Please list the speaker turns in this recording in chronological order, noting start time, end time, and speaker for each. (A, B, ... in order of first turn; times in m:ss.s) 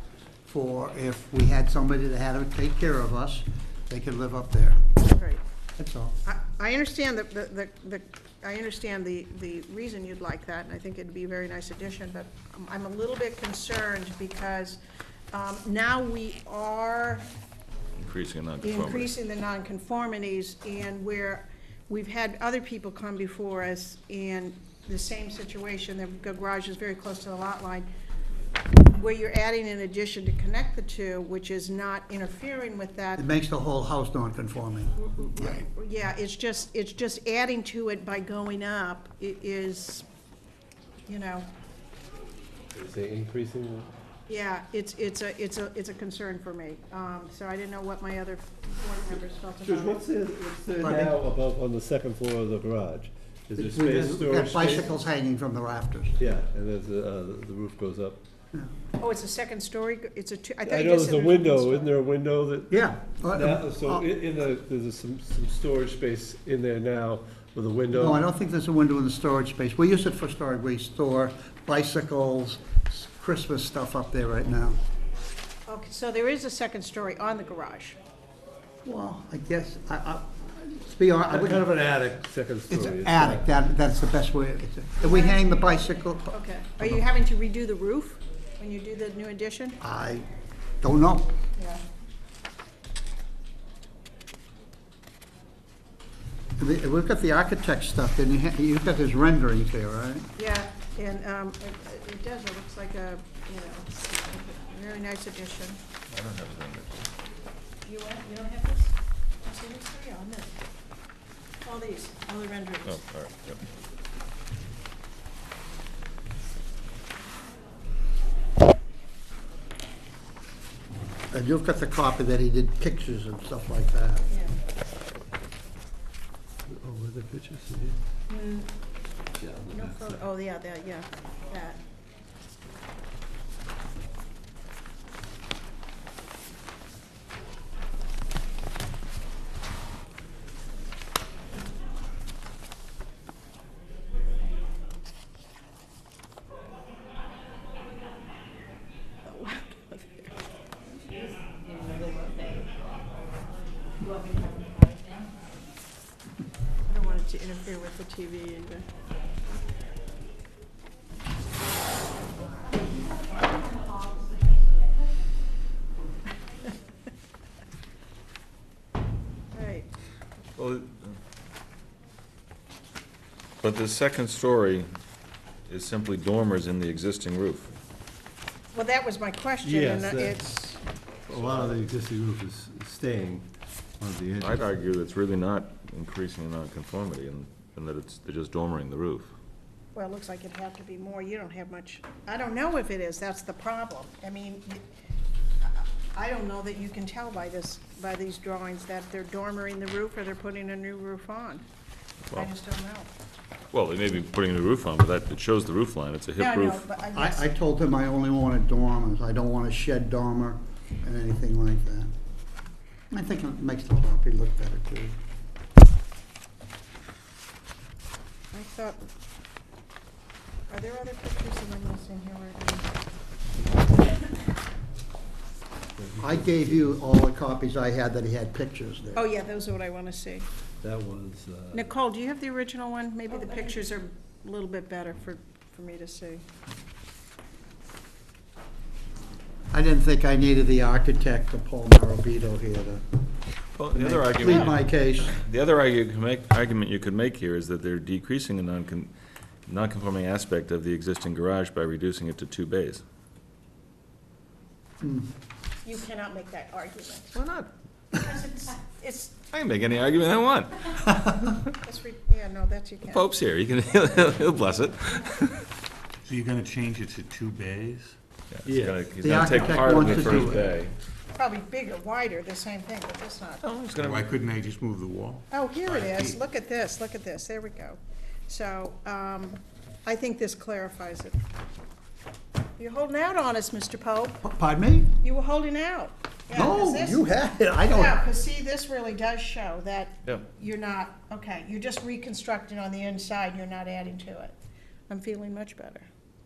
0:00.5-0:04.8 A
0:05.0-0:05.4 B
0:05.8-0:06.2 A
0:06.2-0:14.8 B
0:15.3-0:17.3 B
0:18.0-0:19.1 C
0:18.6-0:27.9 B
0:28.9-0:33.2 B
0:33.2-0:35.7 A
0:35.0-0:40.0 B
0:41.1-0:41.5 B
0:42.7-0:43.9 D
0:44.3-0:50.0 B
0:49.6-0:54.9 D
0:50.8-0:51.1 A
0:53.6-0:56.2 A
0:56.2-0:58.2 D
0:59.0-1:01.9 B
1:00.6-1:08.2 D
1:02.7-1:04.1 A
1:07.9-1:14.8 A
1:15.7-1:18.0 B
1:18.8-1:21.7 A
1:21.3-1:23.5 D
1:22.7-1:27.0 A
1:25.0-1:25.8 B
1:26.3-1:29.8 B
1:29.8-1:30.3 A
1:30.8-1:31.3 A
1:36.6-1:40.3 A
1:40.4-1:45.8 B
1:46.1-1:47.1 C
1:47.9-1:50.5 B
1:51.6-1:53.0 B
1:52.8-1:53.6 C
2:01.3-2:04.2 A
2:06.7-2:08.0 D
2:08.3-2:08.7 B
2:09.3-2:10.2 D
2:09.7-2:11.8 B
2:29.2-2:30.3 B
2:36.9-2:38.8 B
2:49.5-2:49.9 B
2:50.6-2:51.2 C
2:53.6-2:54.9 C
2:55.7-2:57.7 C
2:58.7-3:00.8 B
2:59.6-3:00.4 D
3:01.3-3:03.5 D
3:04.0-3:04.7 D
3:04.4-3:09.3 C
3:09.9-3:14.8 B
3:15.6-3:21.6 B
3:22.3-3:23.1 B
3:23.7-3:26.8 C
3:26.4-3:27.5 B
3:27.1-3:32.1 A
3:33.1-3:35.2 A
3:38.5-3:39.0 B
3:40.7-3:42.8 B
3:46.0-3:46.9 D
3:46.2-3:49.3 A
3:49.1-3:50.4 B
3:50.8-3:51.9 D
3:51.7-3:56.4 B
3:59.7-4:03.0 A
4:03.8-4:09.1 C
4:03.9-4:05.4 A
4:04.4-4:04.8 B
4:09.7-4:13.0 C
4:15.0-4:15.3 A
4:15.8-4:17.3 B
4:17.3-4:18.2 C
4:18.2-4:19.3 B
4:19.5-4:21.0 C
4:21.1-4:21.5 A
4:21.8-4:23.2 B
4:23.0-4:25.7 C
4:26.2-4:28.2 E
4:28.5-4:30.9 C
4:28.6-4:30.5 D
4:29.2-4:30.6 A
4:31.3-4:33.6 B
4:33.6-4:34.3 C
4:33.9-4:36.4 E
4:35.5-4:41.4 B
4:42.8-4:44.4 B
4:44.4-4:45.1 A
4:45.2-4:47.2 B
4:46.5-4:48.2 A
4:47.9-4:54.5 B
4:55.1-4:56.1 B